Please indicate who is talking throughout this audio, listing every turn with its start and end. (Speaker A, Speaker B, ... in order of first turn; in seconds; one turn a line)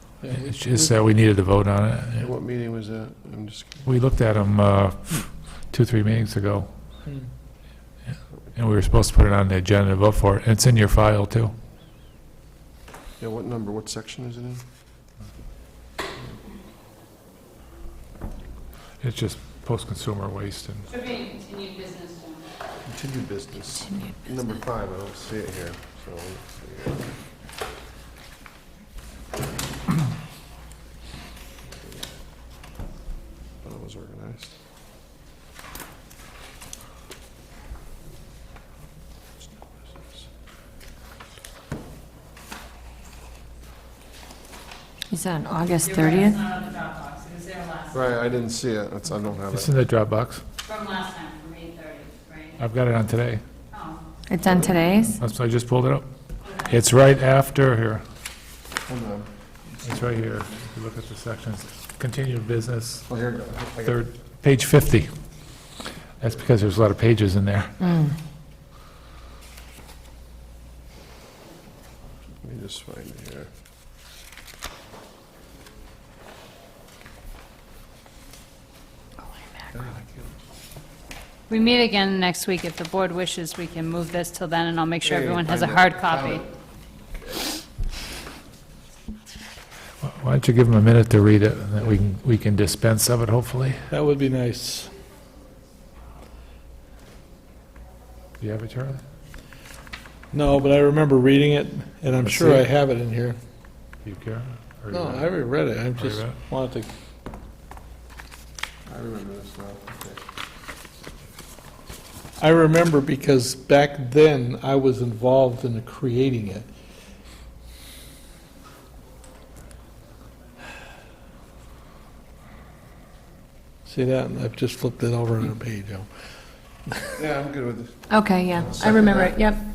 Speaker A: 0.2-0.9
Speaker B: 0.3-2.3
Speaker C: 2.2-3.9
Speaker B: 3.9-6.7
Speaker B: 8.5-11.5
Speaker C: 13.2-14.6
Speaker B: 19.0-20.9
Speaker D: 20.9-22.4
Speaker C: 22.9-27.0
Speaker C: 33.6-34.5
Speaker E: 45.1-46.4
Speaker D: 45.8-48.1
Speaker C: 47.9-49.7
Speaker B: 49.5-50.4
Speaker D: 50.6-52.6
Speaker B: 52.6-53.4
Speaker D: 53.7-54.0
Speaker E: 54.3-55.1
Speaker B: 55.1-56.0
Speaker D: 56.4-56.8
Speaker B: 56.6-58.0
Speaker C: 58.9-59.3
Speaker B: 59.8-63.1
Speaker C: 63.1-63.9
Speaker B: 63.8-65.1
Speaker B: 66.2-67.9
Speaker C: 72.4-73.5
Speaker C: 79.7-80.2
Speaker D: 81.5-86.4
Speaker C: 85.0-86.4
Speaker B: 90.0-93.8
Speaker A: 93.9-94.9
Speaker B: 98.4-99.0
Speaker A: 100.3-103.4
Speaker B: 102.2-102.7
Speaker B: 104.0-105.3
Speaker A: 104.9-106.9
Speaker B: 106.0-106.3
Speaker C: 108.8-110.2
Speaker A: 112.4-116.7
Speaker A: 123.8-126.1
Speaker C: 127.2-129.4
Speaker E: 128.1-129.6